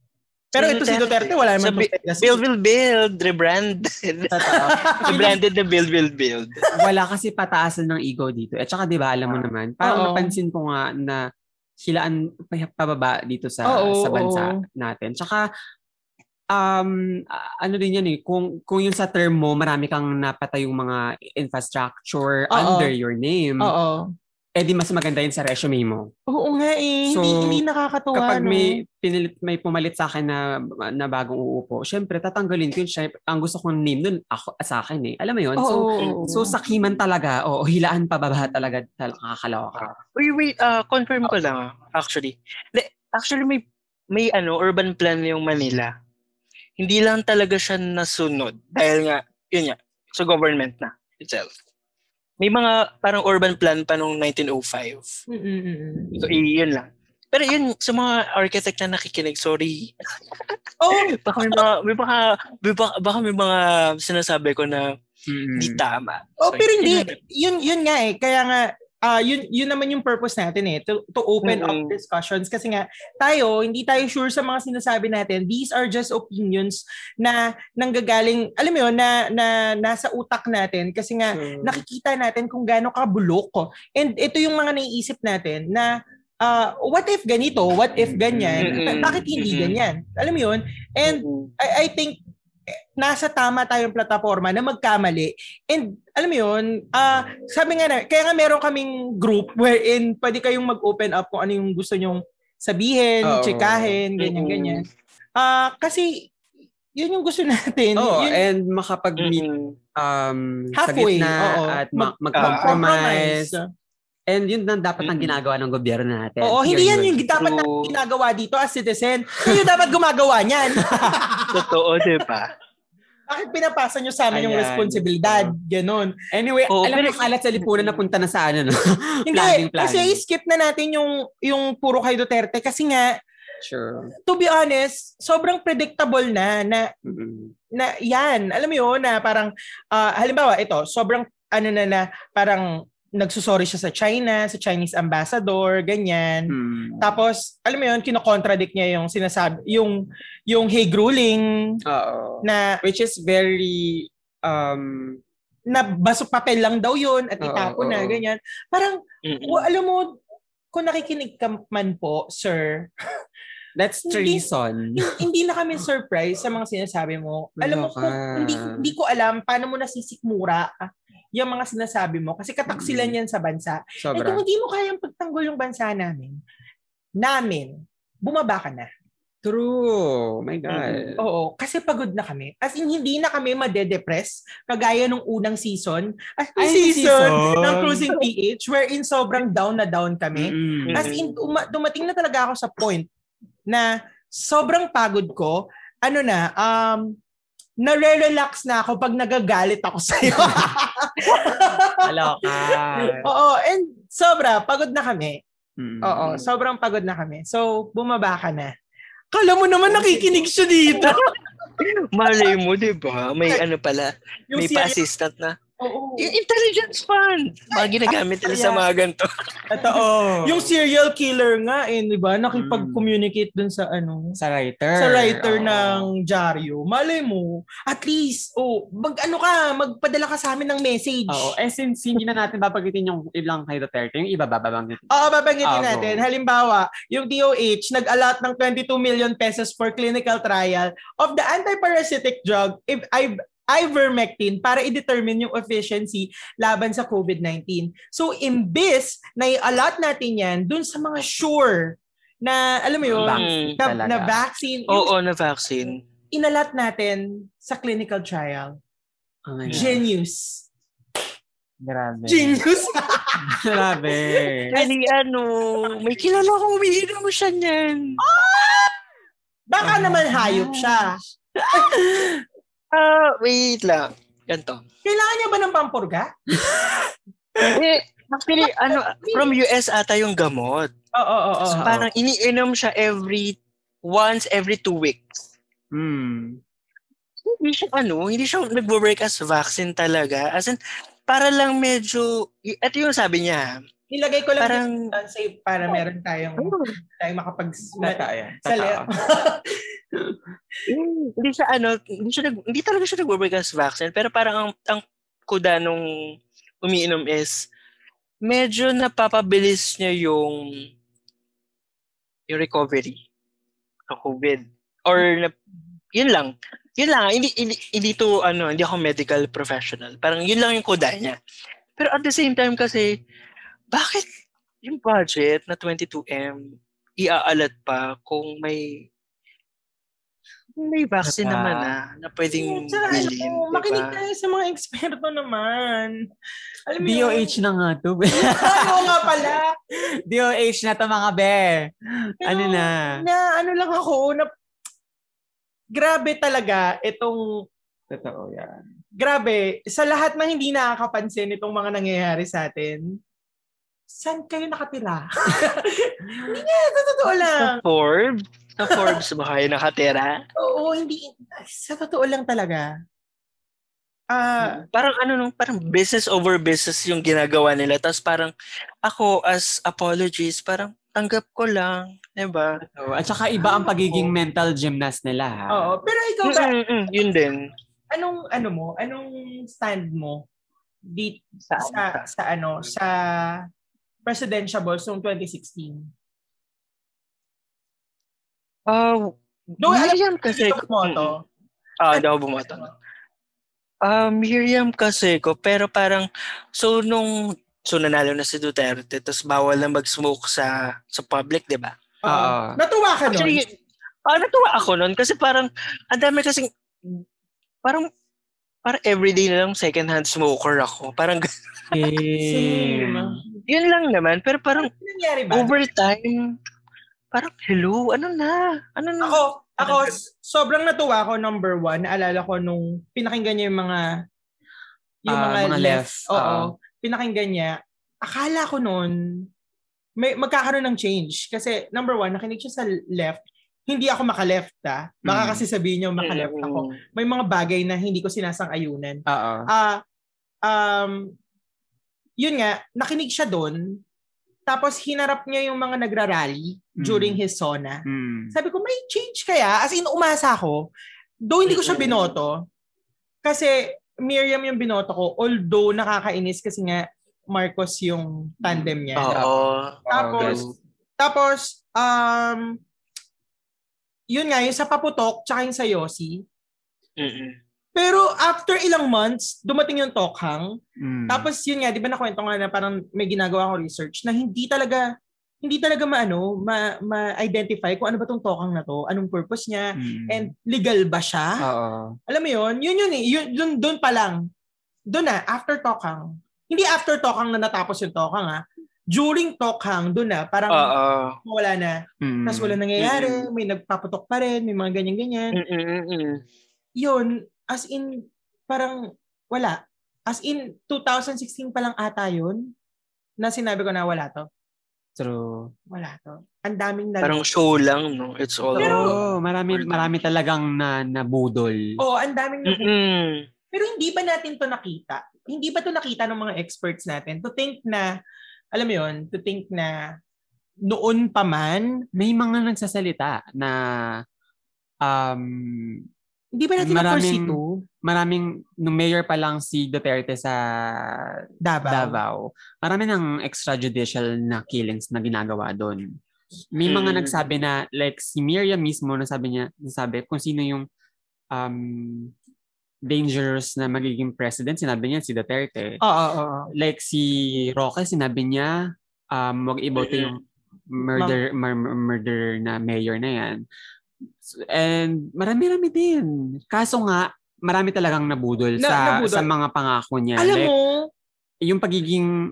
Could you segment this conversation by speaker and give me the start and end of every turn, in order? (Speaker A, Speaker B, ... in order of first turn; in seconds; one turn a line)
Speaker A: 0.5-2.4
Speaker B: 0.6-6.6
Speaker C: 4.3-5.1
Speaker A: 4.4-5.4
Speaker C: 6.7-11.2
Speaker A: 9.8-10.3
Speaker C: 11.8-15.4
Speaker A: 13.7-14.6
Speaker C: 16.5-23.7
Speaker A: 22.5-22.9
Speaker A: 23.6-24.1
Speaker C: 24.6-26.1
Speaker A: 26.3-28.8
Speaker C: 27.1-27.6
Speaker C: 28.1-30.4
Speaker C: 30.9-39.9
Speaker A: 35.6-36.5
Speaker B: 36.0-36.3
Speaker B: 40.0-43.6
Speaker B: 44.1-45.9
Speaker B: 46.8-51.5
Speaker B: 52.4-55.1
Speaker A: 55.3-56.3
Speaker B: 56.1-64.9
Speaker A: 60.8-61.6
Speaker C: 65.3-65.8
Speaker B: 65.5-67.1
Speaker A: 66.4-92.2
Speaker B: 71.4-71.9
Speaker C: 81.3-81.8
Speaker C: 88.0-89.1
Speaker B: 88.6-89.8
Speaker B: 91.1-91.5
Speaker A: 92.7-104.8
Speaker C: 103.2-104.0
Speaker B: 104.2-104.8
Speaker A: 105.4-106.3
Speaker A: 107.0-108.4
Speaker C: 108.0-113.5
Speaker B: 109.2-109.8
Speaker A: 110.8-113.7
Speaker B: 112.4-112.8
Speaker C: 114.3-117.2
Speaker B: 115.0-115.4
Speaker A: 116.4-121.6
Speaker B: 117.4-117.9
Speaker C: 120.8-121.2
Speaker B: 121.5-122.5
Speaker A: 123.3-126.1
Speaker C: 124.3-125.5
Speaker C: 126.3-130.2
Speaker B: 126.7-127.7
Speaker A: 129.3-133.2
Speaker C: 133.6-134.1
Speaker A: 134.3-136.9
Speaker C: 137.0-137.5
Speaker A: 137.7-150.0
Speaker C: 146.5-147.1
Speaker A: 150.5-151.5
Speaker C: 151.9-155.2
Speaker A: 152.4-152.8
Speaker A: 155.7-160.2
Speaker C: 157.4-158.2
Speaker B: 159.2-159.7
Speaker A: 160.7-162.9
Speaker C: 163.8-165.2
Speaker A: 164.1-170.7
Speaker C: 167.6-168.8
Speaker A: 171.3-176.4
Speaker C: 172.7-173.1
Speaker C: 174.0-174.4
Speaker A: 177.2-178.9
Speaker C: 179.4-181.2
Speaker A: 181.2-193.1
Speaker C: 186.6-188.1
Speaker C: 190.3-191.1
Speaker B: 190.9-191.3
Speaker A: 193.7-197.1
Speaker A: 197.8-205.4
Speaker C: 200.3-200.7
Speaker C: 202.0-203.3
Speaker C: 205.8-206.4
Speaker A: 206.0-208.7
Speaker A: 209.3-211.2
Speaker C: 209.8-210.5
Speaker B: 211.0-211.3
Speaker B: 211.8-215.6
Speaker A: 214.5-215.0
Speaker A: 215.8-216.3
Speaker B: 216.2-219.3
Speaker A: 217.7-218.8
Speaker A: 219.7-224.4
Speaker C: 219.8-220.7
Speaker C: 222.5-223.1
Speaker C: 224.4-226.1
Speaker A: 225.0-231.5
Speaker C: 231.3-236.2
Speaker A: 235.1-255.1
Speaker C: 253.0-254.4
Speaker B: 253.2-253.8
Speaker B: 254.9-256.0
Speaker A: 256.3-258.7
Speaker C: 259.5-260.0
Speaker B: 259.7-259.9
Speaker A: 259.7-260.7
Speaker C: 261.8-262.6
Speaker A: 262.3-264.1
Speaker C: 263.4-264.8
Speaker B: 264.7-268.1
Speaker A: 268.2-268.9
Speaker A: 269.7-271.2
Speaker C: 269.8-272.4
Speaker B: 272.9-274.8
Speaker A: 275.0-276.3
Speaker B: 277.7-280.9
Speaker A: 278.6-279.5
Speaker A: 281.1-281.9
Speaker C: 281.7-282.1
Speaker B: 281.8-285.2
Speaker C: 285.9-286.6
Speaker B: 287.4-293.8
Speaker A: 294.1-299.8
Speaker B: 294.6-295.0
Speaker B: 296.6-296.9
Speaker C: 298.0-299.1
Speaker C: 300.1-300.4
Speaker B: 300.9-306.1
Speaker B: 306.8-307.7
Speaker B: 308.4-310.6
Speaker B: 312.5-313.2
Speaker B: 314.1-315.5
Speaker B: 316.1-321.4
Speaker B: 322.0-323.1
Speaker B: 323.9-324.2
Speaker B: 324.8-329.1
Speaker B: 330.8-334.2
Speaker C: 331.2-331.9
Speaker A: 332.5-336.2
Speaker A: 336.9-337.5
Speaker C: 337.0-339.6
Speaker A: 338.3-339.7
Speaker C: 340.3-343.2
Speaker A: 342.4-344.5
Speaker A: 345.9-347.4
Speaker C: 348.1-348.8
Speaker A: 349.2-353.0
Speaker A: 354.1-357.8
Speaker C: 356.3-356.6
Speaker B: 357.5-360.4
Speaker A: 358.9-359.2
Speaker A: 360.6-362.9
Speaker A: 364.3-364.8
Speaker B: 364.9-368.5
Speaker B: 369.0-372.8
Speaker C: 372.8-376.0
Speaker A: 373.6-374.3
Speaker A: 375.7-376.7
Speaker B: 376.4-377.7
Speaker A: 378.1-380.4
Speaker A: 381.1-383.6
Speaker B: 381.7-382.2
Speaker A: 384.2-386.1
Speaker B: 388.9-391.3
Speaker A: 389.8-391.4
Speaker B: 392.0-392.9
Speaker B: 394.0-401.9
Speaker A: 402.2-403.6
Speaker C: 402.3-402.8
Speaker B: 403.3-403.7
Speaker B: 404.2-407.2
Speaker B: 408.8-411.9
Speaker C: 411.9-413.4
Speaker A: 412.4-413.4
Speaker B: 413.7-414.9
Speaker A: 414.8-415.7
Speaker B: 415.5-416.5
Speaker B: 417.3-420.1
Speaker A: 419.2-424.0
Speaker A: 425.3-429.1
Speaker C: 425.3-426.7
Speaker A: 430.2-440.0
Speaker C: 435.2-435.6
Speaker B: 436.2-436.9
Speaker C: 439.3-439.7
Speaker A: 440.6-441.3
Speaker A: 442.4-444.0
Speaker A: 444.7-450.9
Speaker C: 447.0-447.4
Speaker C: 448.1-448.5
Speaker A: 451.5-452.6
Speaker B: 451.7-452.4
Speaker A: 453.4-459.3
Speaker C: 458.6-459.5
Speaker B: 459.2-460.7
Speaker C: 460.1-460.7
Speaker A: 460.1-460.6
Speaker A: 461.2-462.8
Speaker A: 464.3-466.4
Speaker B: 467.2-467.6
Speaker A: 467.9-470.7
Speaker C: 471.0-471.5
Speaker A: 471.3-475.1
Speaker A: 475.6-481.6
Speaker C: 480.0-480.5
Speaker C: 481.6-482.1
Speaker A: 482.3-484.4
Speaker A: 485.1-490.9
Speaker B: 490.7-491.4
Speaker A: 491.4-495.6
Speaker C: 492.2-492.8
Speaker B: 493.0-493.5
Speaker B: 495.5-496.4
Speaker A: 497.0-499.0
Speaker A: 499.5-502.6
Speaker A: 503.4-504.4
Speaker C: 505.2-505.7
Speaker A: 505.9-507.4
Speaker B: 507.2-510.1
Speaker A: 508.8-509.1
Speaker C: 508.8-512.0
Speaker A: 512.0-512.9
Speaker B: 512.6-513.5
Speaker A: 513.7-518.1
Speaker A: 518.7-520.0
Speaker A: 520.9-522.0
Speaker C: 522.1-524.2
Speaker C: 525.0-526.0
Speaker A: 526.5-527.6
Speaker C: 526.8-536.1
Speaker A: 531.6-532.2
Speaker C: 536.7-540.9
Speaker B: 536.8-537.4
Speaker C: 541.5-542.3
Speaker C: 543.1-546.0
Speaker A: 546.0-546.7
Speaker C: 546.8-548.8
Speaker C: 549.3-550.4
Speaker B: 550.0-550.4
Speaker C: 550.9-553.6
Speaker C: 554.5-560.7
Speaker A: 558.8-559.5
Speaker A: 560.4-561.0
Speaker C: 561.6-562.3